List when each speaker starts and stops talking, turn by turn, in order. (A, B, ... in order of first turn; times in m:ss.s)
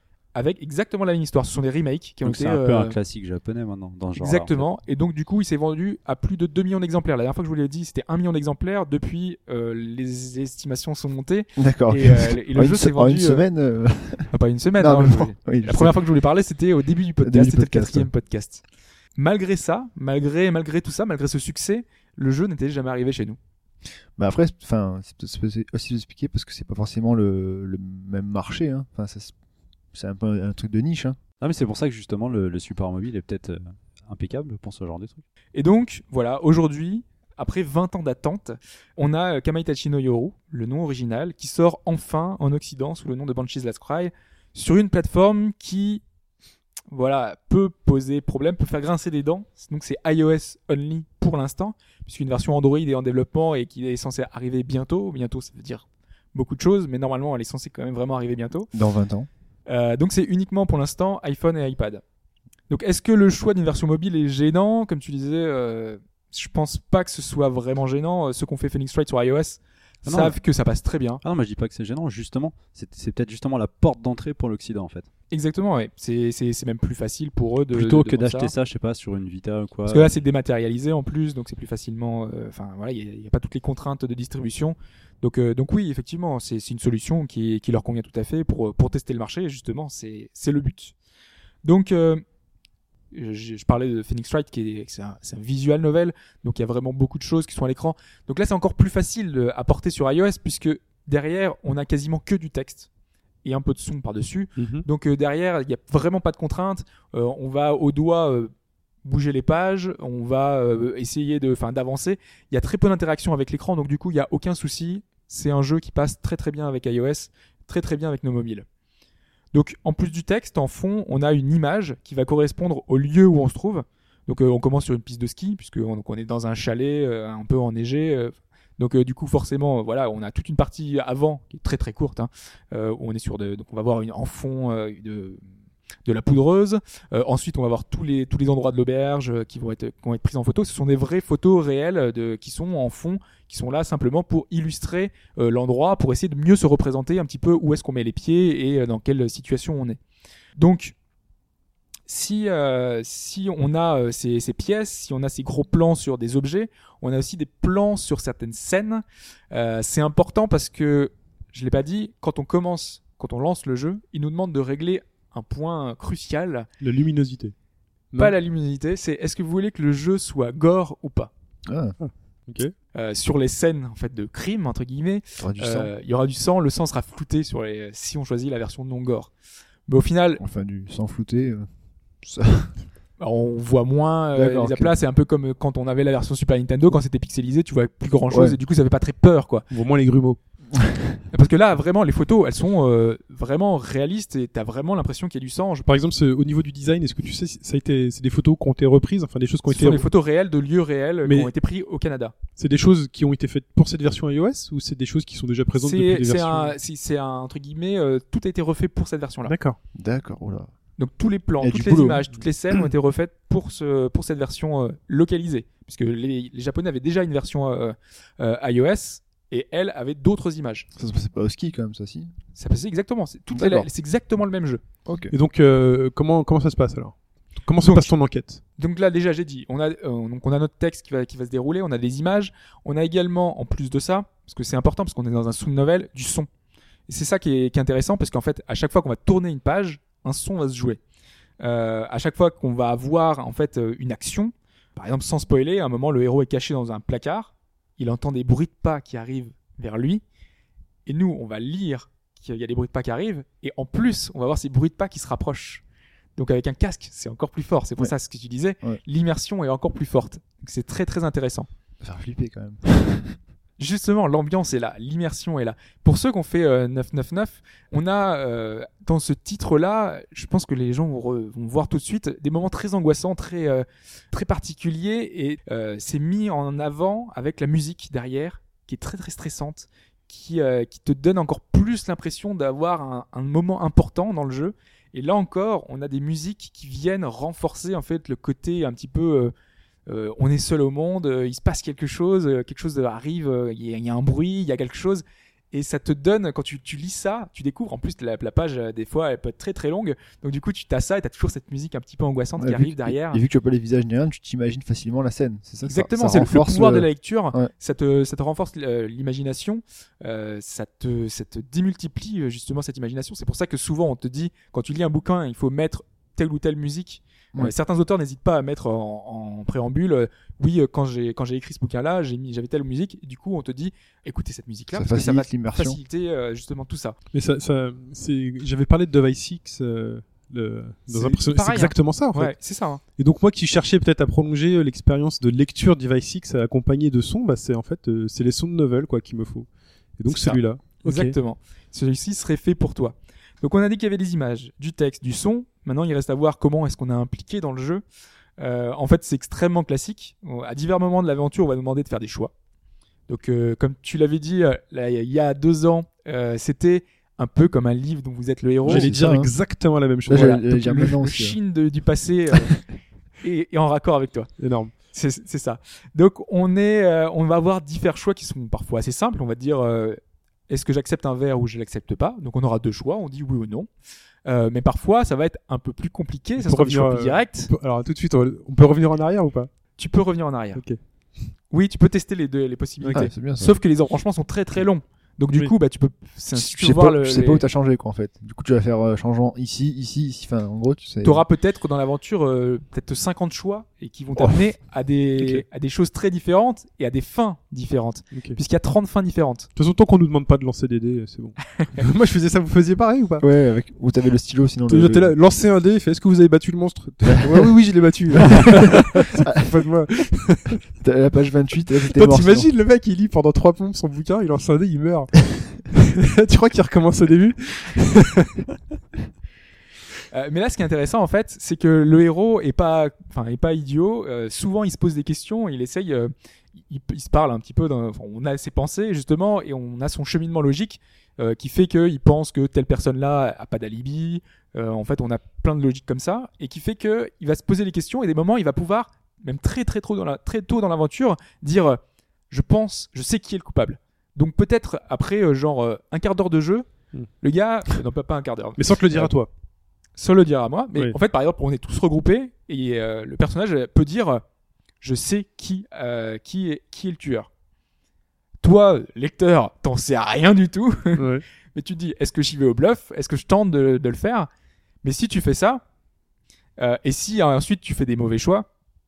0:00.3-0:03.0 A
0:02.2-0:04.7 B
0:04.2-0:13.4 A
0:11.6-0:16.0 C
0:14.3-0:18.6 A
0:17.2-0:18.1 C
0:19.2-0:23.4 A
0:24.2-0:29.3 C
0:29.9-0:31.2 C
0:31.4-0:35.2 B
0:35.5-0:46.0 A
0:46.9-0:58.7 A
0:58.7-0:59.3 C
0:59.7-1:02.0 A
1:02.7-1:11.2 A
1:10.0-1:10.4 B
1:11.2-1:15.1 B
1:15.3-1:18.5 A
1:17.7-1:20.1 B
1:19.9-1:31.0 A
1:31.6-1:32.2 A
1:33.1-1:42.9 A
1:43.4-1:48.5 A
1:44.6-1:44.9 D
1:49.0-1:58.7 A
1:59.5-2:15.4 A
2:16.0-2:30.0 A
2:30.6-2:31.0 A
2:32.1-2:46.7 A
2:46.8-2:47.5 D
2:48.2-2:51.3 A
2:51.7-2:52.0 C
2:52.0-2:52.7 D
2:52.9-2:59.3 A
2:55.4-2:55.9 C
2:59.9-3:00.4 A
3:00.4-3:01.7 C
3:02.2-3:02.7 C
3:03.2-3:09.7 A
3:04.3-3:05.0 C
3:08.3-3:08.6 C
3:09.7-3:10.4 D
3:10.7-3:11.2 C
3:11.3-3:15.9 A
3:15.9-3:20.1 D
3:19.7-3:22.3 A
3:21.2-3:21.5 D
3:22.6-3:26.8 D
3:25.8-3:29.6 A
3:29.5-3:29.8 D
3:30.0-3:30.7 C
3:31.0-3:40.9 A
3:31.6-3:32.2 C
3:41.0-3:42.3 C
3:42.6-3:44.8 A
3:43.5-3:43.9 C
3:45.1-3:45.3 C
3:45.3-3:48.6 D
3:47.8-3:48.1 A
3:48.8-3:56.5 A
3:57.1-4:01.0 A
4:01.6-4:10.2 A
4:11.1-4:15.8 A
4:16.4-4:21.7 A
4:22.0-4:23.4 C
4:23.8-4:49.5 A
4:50.1-5:03.4 A
5:02.6-5:07.7 C
5:05.9-5:27.2 A
5:24.9-5:26.0 C
5:27.3-5:32.5 D
5:31.1-5:33.0 A
5:33.2-5:41.4 D
5:40.3-5:48.0 A
5:48.6-5:52.5 A
5:53.3-5:59.2 A
5:58.8-5:59.6 C
5:58.8-6:01.2 D
6:00.3-6:01.6 C
6:00.3-6:02.8 A
6:03.4-6:04.5 A
6:04.6-6:04.9 D
6:05.1-6:13.9 A
6:14.5-6:17.7 A
6:16.6-6:19.7 D
6:20.0-6:20.8 A
6:21.7-6:27.6 A
6:23.0-6:23.8 C
6:26.5-6:31.4 C
6:31.2-6:39.7 A
6:35.4-6:35.6 D
6:38.3-6:38.6 D
6:39.8-6:43.5 D
6:43.4-6:45.4 C
6:44.9-6:50.8 D
6:47.4-6:47.7 C
6:48.4-6:49.8 C
6:51.0-6:52.7 C
6:52.1-6:58.6 D
7:00.3-7:06.3 A
7:06.9-7:26.9 A
7:27.4-7:29.3 A
7:28.8-7:29.5 D
7:30.2-7:34.4 A
7:35.0-7:37.5 A
7:38.6-7:44.5 A
7:41.2-7:41.4 D
7:45.0-7:45.8 A
7:46.8-7:48.7 A